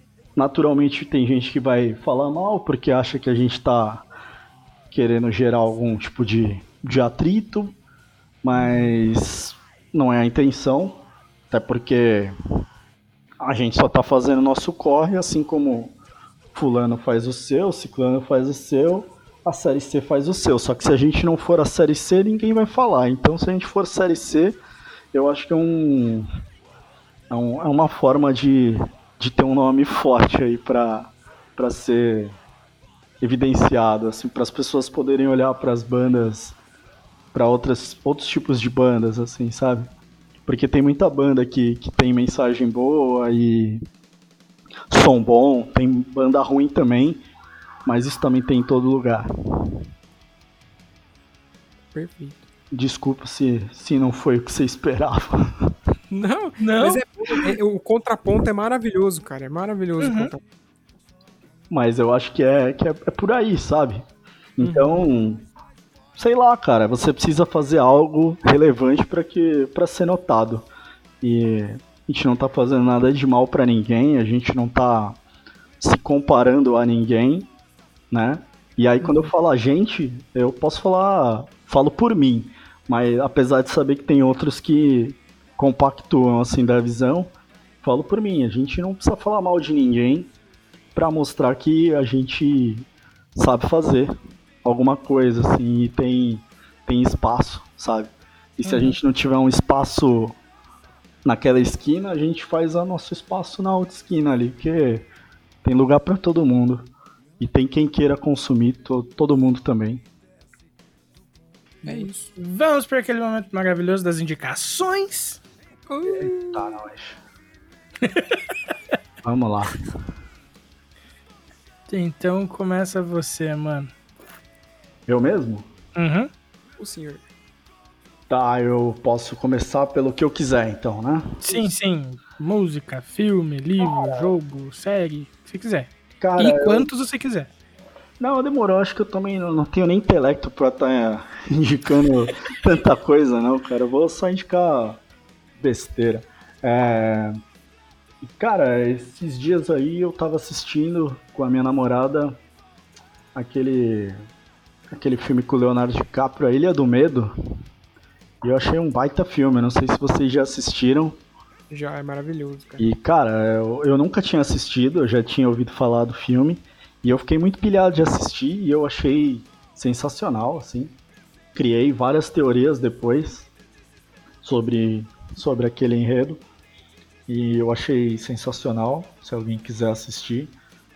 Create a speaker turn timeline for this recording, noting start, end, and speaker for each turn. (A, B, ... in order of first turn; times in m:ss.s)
0:00.4-0:04.1 A
0:04.9-0:07.8 A
0:08.4-0:12.3 A
0:08.6-0:09.0 B
0:13.4-0:16.0 A
0:16.5-0:24.6 A
0:25.1-0:26.3 A
0:27.3-0:32.4 A
0:33.2-0:36.6 A
0:37.3-0:39.9 A
0:40.5-0:43.8 A
0:44.9-0:47.2 A
0:47.9-0:49.8 A
0:51.9-0:52.4 B
0:52.7-0:55.8 A
0:56.1-1:00.4 B
0:56.6-0:57.5 C
1:00.0-1:00.3 C
1:01.7-1:04.0 A
1:04.6-1:05.4 A
1:04.6-1:05.0 B
1:06.2-1:10.7 A
1:11.2-1:15.2 A
1:15.8-1:17.5 A
1:18.1-1:30.3 A
1:19.0-1:19.3 B
1:31.0-1:34.1 A
1:34.6-1:40.4 A
1:38.7-1:39.0 B
1:41.2-1:45.1 A
1:45.6-1:50.0 A
1:51.8-1:52.4 B
1:51.8-1:55.4 C
1:55.9-1:56.8 B
1:56.1-1:57.2 A
1:58.1-1:58.3 C
1:59.2-1:59.8 A
2:01.9-2:03.9 C
2:05.1-2:05.7 A
2:06.0-2:06.3 C
2:06.8-2:07.2 B
2:08.3-2:11.4 A
2:11.4-2:17.5 C
2:13.8-2:14.3 A
2:16.2-2:16.9 A
2:18.2-2:25.0 A
2:25.6-2:27.4 A
2:28.2-2:32.4 A
2:33.4-2:34.2 A
2:34.9-2:37.3 A
2:38.4-2:41.2 A
2:41.7-2:42.9 B
2:42.8-2:51.0 A
2:51.6-2:53.5 A
2:54.4-2:56.4 A
2:57.3-3:00.5 A